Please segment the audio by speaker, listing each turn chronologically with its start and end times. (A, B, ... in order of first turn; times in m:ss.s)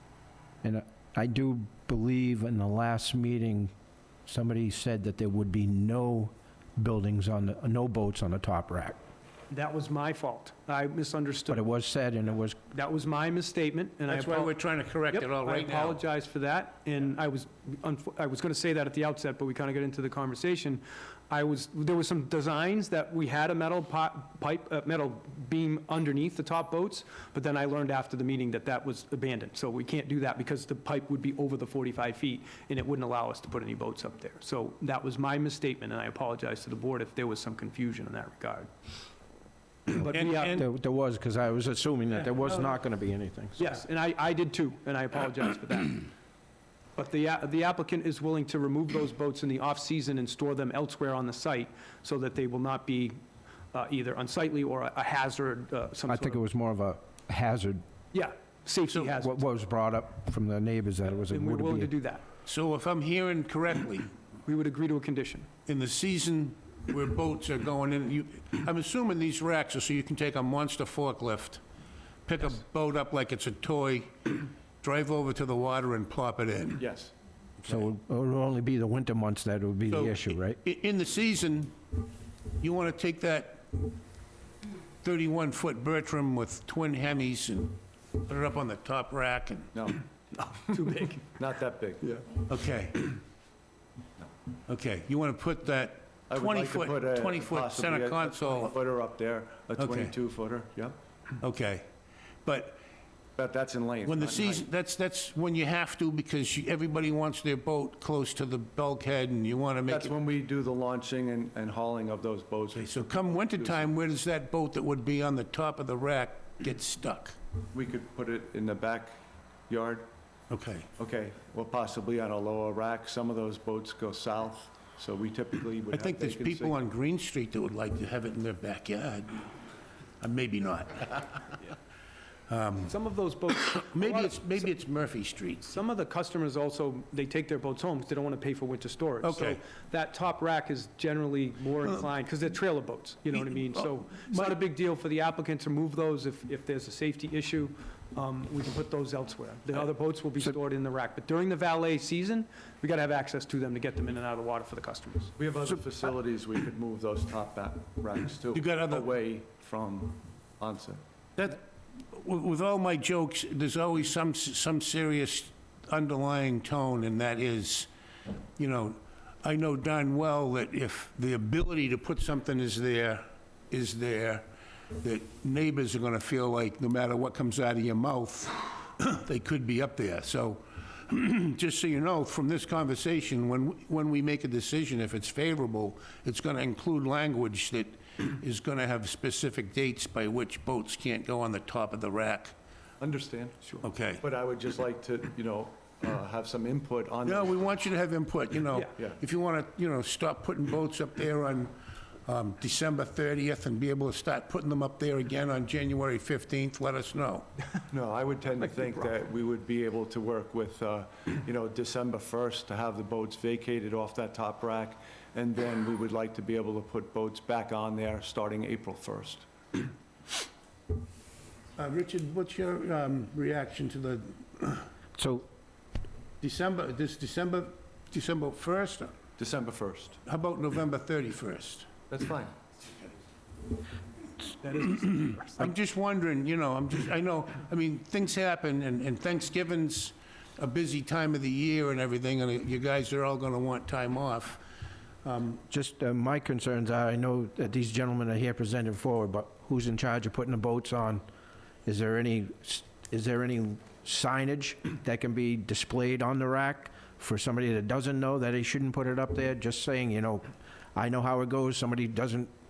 0:00.6-0:03.7 A
0:04.3-0:09.0 A
0:09.5-0:11.6 B
0:11.5-0:12.6 A
0:12.7-0:38.7 B
0:14.1-0:16.0 C
0:39.9-0:40.6 B
0:40.0-0:40.6 C
0:40.5-0:43.7 A
0:43.6-0:46.1 B
0:47.0-0:53.2 B
0:53.7-0:56.4 B
0:56.1-0:57.8 A
0:58.1-0:59.4 B
0:58.9-1:01.9 A
1:01.3-1:02.2 B
1:02.5-1:04.1 C
1:04.5-1:05.5 B
1:05.7-1:11.6 C
1:12.3-1:16.8 C
1:16.8-1:17.1 D
1:17.7-1:20.6 A
1:19.9-1:21.8 C
1:22.6-1:23.9 C
1:25.0-1:29.8 C
1:29.7-1:30.0 D
1:30.4-1:31.2 B
1:31.3-1:32.3 D
1:32.4-1:33.2 C
1:34.7-1:38.8 C
1:36.3-1:41.0 D
1:39.8-1:40.1 C
1:41.4-1:41.9 C
1:42.4-1:42.8 C
1:43.4-1:44.6 D
1:44.0-1:50.2 C
1:49.9-1:53.9 D
1:52.8-1:57.4 C
1:57.7-1:59.2 D
1:59.7-2:00.1 D
2:00.5-2:00.9 C
2:01.0-2:06.8 D
2:05.9-2:09.5 C
2:10.2-2:11.6 C
2:12.5-2:12.9 C
2:12.8-2:14.7 B
2:13.7-2:15.7 C
2:15.6-2:35.3 B
2:19.2-2:19.6 C
2:23.4-2:24.6 C
2:35.4-2:41.0 D
2:38.5-2:39.1 C
2:41.4-2:47.9 C
2:48.6-2:54.5 C
2:55.0-3:12.6 C
3:13.0-3:17.7 D
3:13.8-3:14.2 C
3:17.2-3:21.7 C
3:22.3-3:27.5 C
3:27.9-3:39.4 D
3:41.8-3:44.9 C
3:45.2-3:45.5 A
3:46.4-3:49.1 C
3:49.4-3:50.2 D
3:50.2-3:51.9 C
3:52.1-3:52.6 D
3:54.6-3:55.6 B
3:55.0-4:04.6 C
4:05.2-4:05.6 C
4:05.7-4:11.2 A
4:11.9-4:20.4 A
4:21.0-4:22.5 A